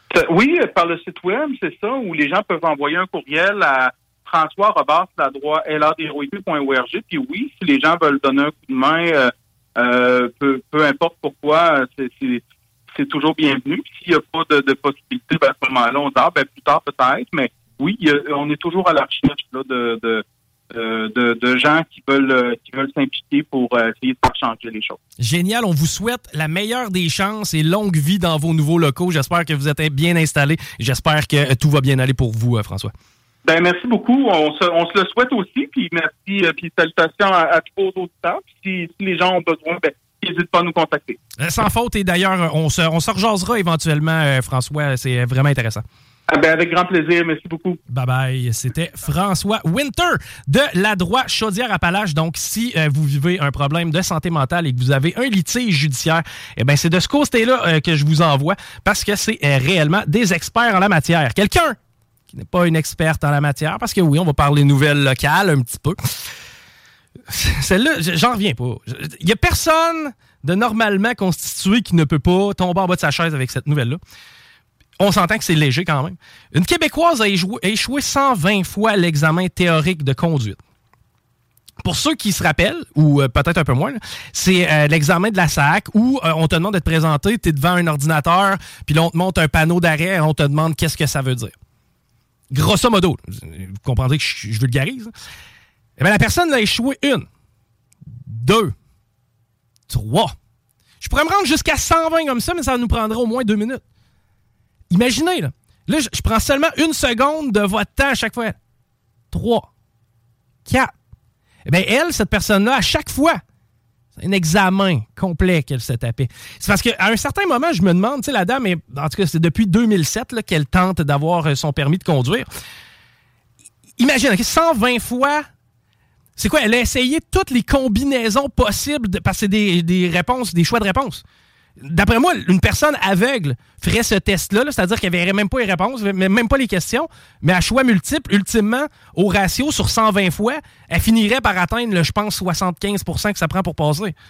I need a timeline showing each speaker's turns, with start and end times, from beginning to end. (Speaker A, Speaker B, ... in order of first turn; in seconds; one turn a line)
Speaker A: 0.1-25.0
Speaker B: 25.2-32.9
Speaker A: 33.5-41.2
Speaker B: 41.4-45.8
Speaker A: 46.3-47.8
Speaker B: 47.9-61.8
Speaker B: 62.3-66.0
Speaker B: 67.3-74.0
Speaker B: 75.0-80.6
Speaker B: 81.8-91.5
Speaker B: 92.5-95.1
Speaker B: 96.0-97.2
Speaker B: 98.2-98.7
Speaker B: 99.9-100.3
Speaker B: 101.0-103.8
Speaker B: 104.9-108.6
Speaker B: 109.3-109.7
Speaker B: 110.7-110.9
Speaker B: 111.7-113.4
Speaker B: 114.2-122.5
Speaker B: 124.0-125.5
Speaker B: 126.4-131.2
Speaker B: 131.8-144.1